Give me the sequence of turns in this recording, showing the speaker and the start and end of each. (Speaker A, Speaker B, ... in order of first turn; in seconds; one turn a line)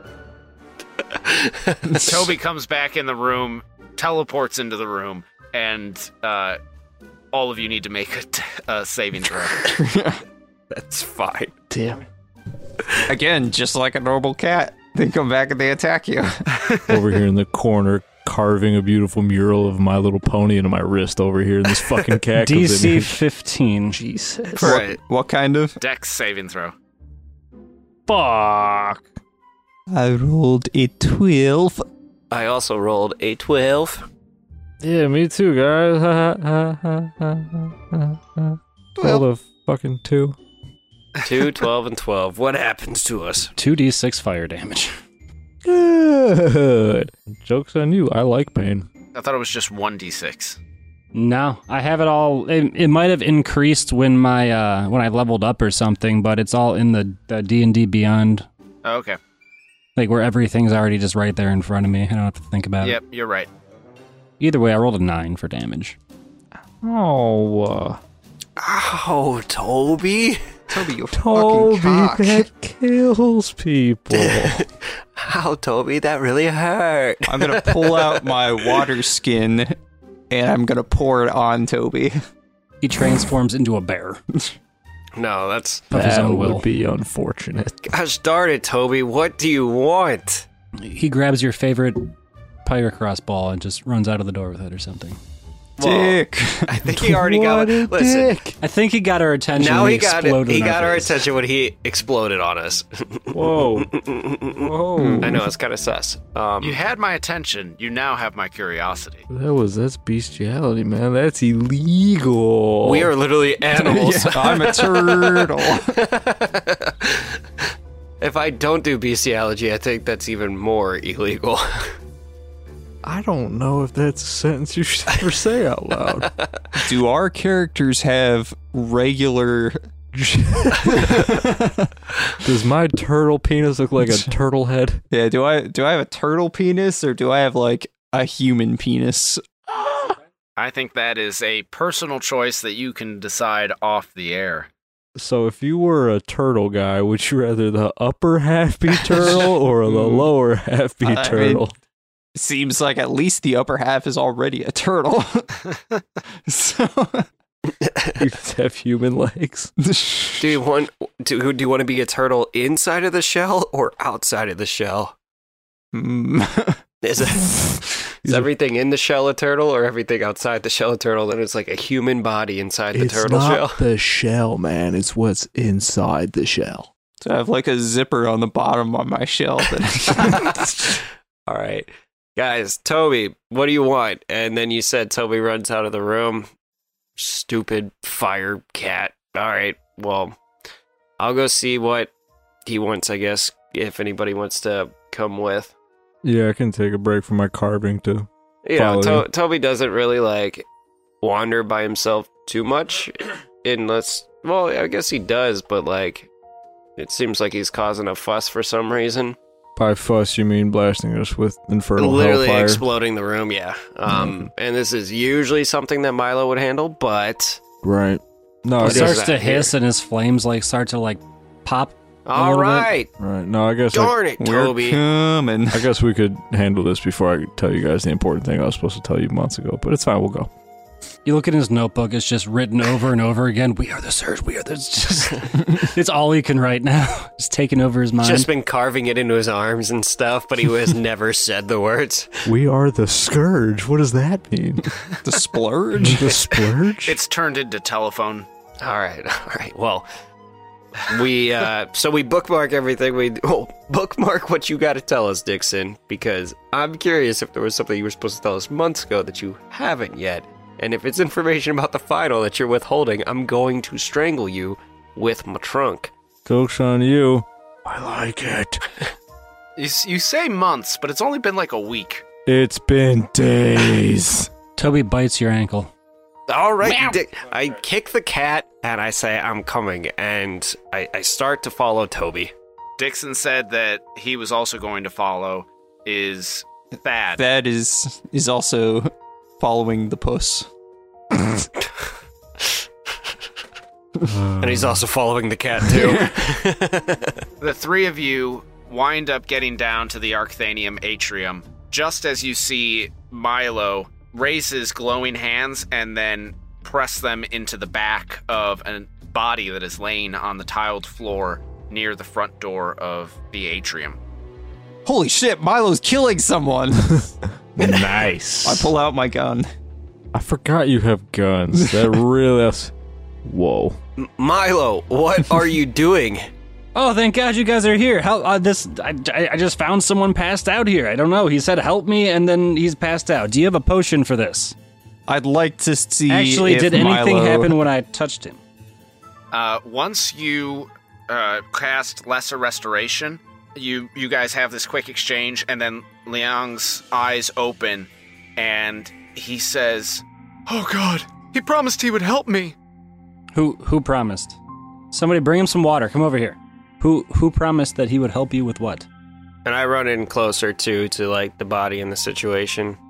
Speaker A: 1.0-2.1
Speaker B: 1.9-6.6
Speaker B: 7.3-9.6
Speaker C: 9.6-10.2
Speaker A: 10.7-11.6
Speaker D: 11.7-12.0
Speaker C: 13.1-16.7
Speaker D: 16.9-23.2
Speaker E: 22.4-24.0
Speaker D: 23.9-24.8
Speaker C: 24.6-25.8
Speaker A: 24.6-24.9
Speaker B: 25.8-26.8
Speaker D: 28.1-29.0
Speaker C: 29.9-31.9
Speaker A: 32.3-34.1
Speaker D: 34.8-40.4
Speaker C: 39.0-39.2
Speaker A: 41.2-43.5
Speaker E: 43.6-44.9
Speaker D: 45.6-48.9
Speaker B: 49.1-50.6
Speaker E: 51.1-58.5
Speaker B: 58.9-59.2
Speaker E: 60.0-63.0
Speaker B: 62.8-63.5
Speaker E: 64.4-66.0
Speaker D: 66.8-68.0
Speaker A: 68.6-70.6
Speaker C: 70.7-72.2
Speaker D: 71.1-74.7
Speaker A: 72.1-72.5
Speaker A: 74.1-78.8
Speaker C: 77.3-79.8
Speaker C: 80.3-82.1
Speaker E: 82.8-84.2
Speaker A: 85.2-85.9
Speaker E: 85.9-86.7
Speaker D: 85.9-87.8
Speaker A: 87.8-90.5
Speaker E: 90.8-92.1
Speaker E: 92.7-95.2
Speaker A: 95.8-98.4
Speaker C: 95.8-97.0
Speaker D: 96.9-98.6
Speaker E: 98.6-101.2
Speaker A: 99.6-106.8
Speaker D: 103.3-103.9
Speaker D: 104.6-105.5
Speaker C: 105.0-105.3
Speaker B: 106.6-109.3
Speaker D: 109.3-113.1
Speaker A: 112.8-117.4
Speaker C: 113.7-116.0
Speaker A: 118.2-121.9
Speaker D: 123.0-126.3
Speaker A: 126.2-126.5
Speaker C: 126.8-129.8
Speaker D: 130.1-131.5
Speaker C: 130.9-131.7
Speaker D: 132.4-135.0
Speaker C: 135.1-140.1
Speaker B: 140.6-144.7
Speaker D: 145.2-151.7
Speaker C: 149.9-150.3
Speaker C: 151.0-151.7
Speaker C: 152.3-155.6
Speaker C: 156.5-157.3
Speaker A: 157.8-158.1
Speaker D: 158.2-159.7
Speaker C: 159.8-160.6
Speaker A: 160.4-165.1
Speaker C: 165.9-166.8
Speaker A: 167.0-173.8
Speaker D: 172.9-176.9
Speaker C: 177.2-180.8
Speaker A: 180.2-186.5
Speaker A: 187.2-190.4
Speaker A: 191.2-192.1
Speaker A: 192.7-195.7
Speaker D: 196.2-199.3
Speaker A: 198.7-200.7
Speaker A: 201.2-206.3
Speaker A: 207.0-209.4
Speaker D: 209.8-212.8
Speaker A: 212.0-217.6
Speaker D: 214.1-214.5
Speaker D: 217.8-219.3
Speaker A: 218.8-219.7
Speaker E: 218.8-222.9
Speaker A: 222.3-223.1
Speaker D: 223.2-224.1
Speaker A: 223.9-225.0
Speaker C: 224.4-225.9
Speaker D: 225.7-230.5
Speaker E: 231.2-238.5
Speaker A: 238.2-242.4
Speaker D: 242.4-245.0
Speaker C: 245.2-246.4
Speaker D: 246.0-247.2
Speaker B: 247.1-248.5
Speaker A: 248.8-250.1
Speaker A: 251.0-266.1
Speaker D: 266.5-269.0
Speaker B: 269.8-272.2
Speaker D: 272.5-274.5
Speaker E: 274.8-275.9
Speaker A: 276.5-282.5
Speaker B: 283.0-287.4
Speaker C: 287.4-290.7
Speaker D: 294.2-295.0
Speaker A: 294.6-297.4
Speaker B: 297.6-314.2
Speaker C: 315.1-317.1
Speaker D: 317.8-318.9
Speaker A: 317.8-318.1
Speaker C: 318.6-319.7
Speaker D: 320.3-322.9
Speaker C: 321.8-322.1
Speaker D: 323.4-324.0
Speaker A: 324.2-326.5
Speaker E: 326.9-334.8
Speaker C: 335.3-337.7
Speaker E: 336.3-338.6
Speaker B: 339.5-350.2
Speaker F: 350.7-352.8
Speaker E: 353.5-354.6
Speaker E: 355.1-359.1
Speaker A: 359.6-363.0